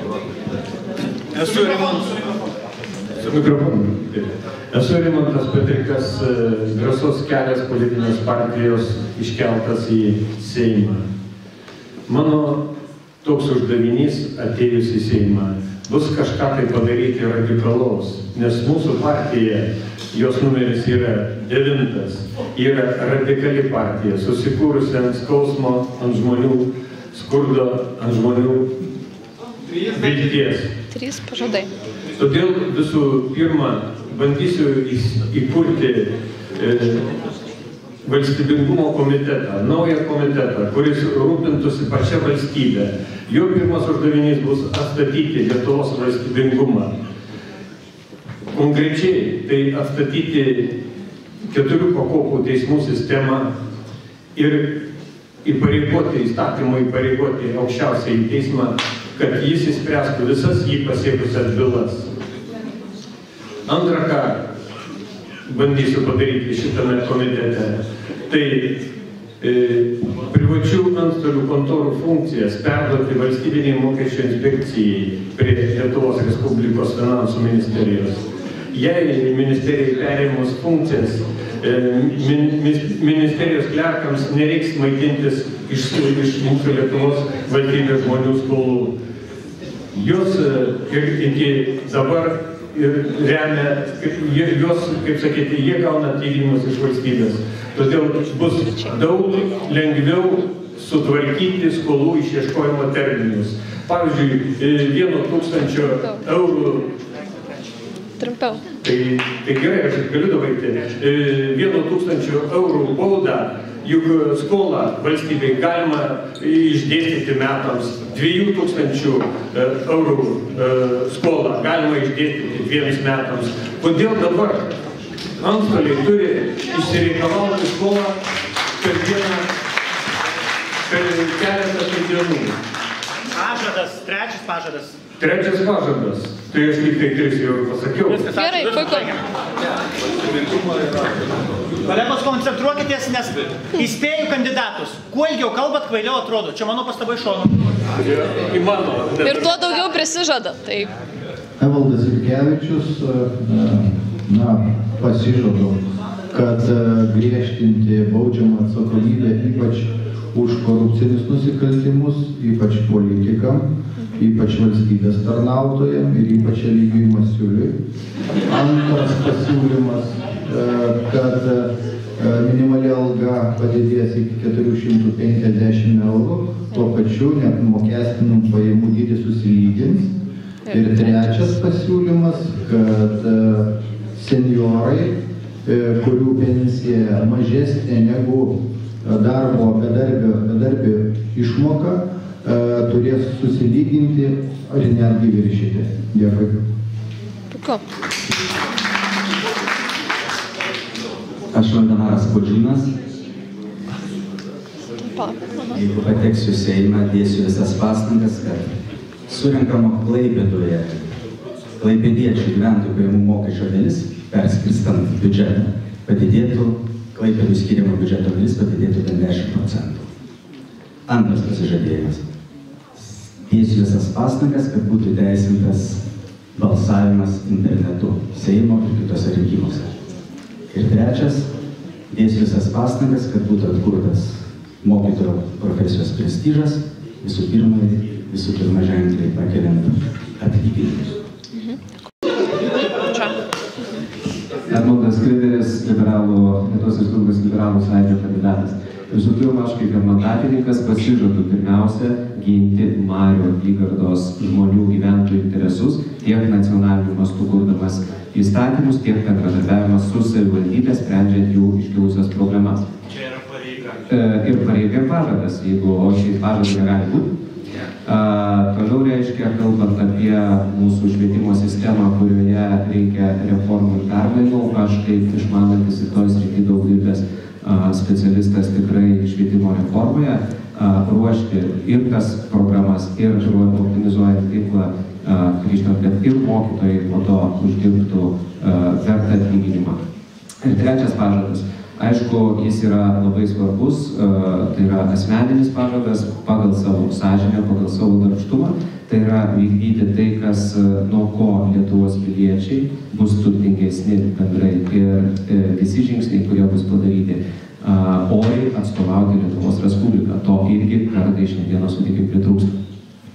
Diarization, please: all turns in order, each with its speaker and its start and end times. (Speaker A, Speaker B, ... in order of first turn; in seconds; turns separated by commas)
Speaker A: 1.3-2.0, Speaker B: 1.4-1.9, Speaker B: 3.2-11.0, Speaker B: 12.1-12.6, Speaker B: 13.2-28.7, Speaker B: 29.9-30.8, Speaker C: 30.9-31.7, Speaker B: 32.2-37.0, Speaker B: 38.0-46.9, Speaker B: 48.5-50.8, Speaker B: 51.5-53.5, Speaker B: 54.4-54.8, Speaker B: 55.4-62.1, Speaker B: 63.7-64.5, Speaker B: 65.5-68.8, Speaker B: 69.4-88.9, Speaker B: 89.9-106.9, Speaker C: 108.2-108.6, Speaker B: 108.8-124.7, Speaker B: 125.4-128.2, Speaker B: 128.8-129.5, Speaker B: 130.9-132.6, Speaker A: 133.3-135.0, Speaker B: 135.2-138.4, Speaker A: 138.1-139.2, Speaker C: 138.4-139.1, Speaker A: 141.8-147.7, Speaker B: 148.0-149.8, Speaker C: 149.2-150.9, Speaker D: 151.6-155.8, Speaker D: 156.3-167.7, Speaker D: 168.5-180.1, Speaker D: 180.7-196.6, Speaker C: 197.5-197.8, Speaker E: 201.5-202.9, Speaker C: 205.0-205.8, Speaker E: 205.7-208.7, Speaker E: 209.3-211.0, Speaker E: 211.8-220.1, Speaker E: 221.1-222.2, Speaker E: 223.4-226.0, Speaker E: 226.5-229.9, Speaker E: 230.7-231.5, Speaker E: 232.1-241.1, Speaker C: 241.5-241.8, Speaker C: 242.7-243.4, Speaker F: 244.7-262.8, Speaker F: 264.1-267.3, Speaker F: 268.1-290.0, Speaker F: 290.6-312.7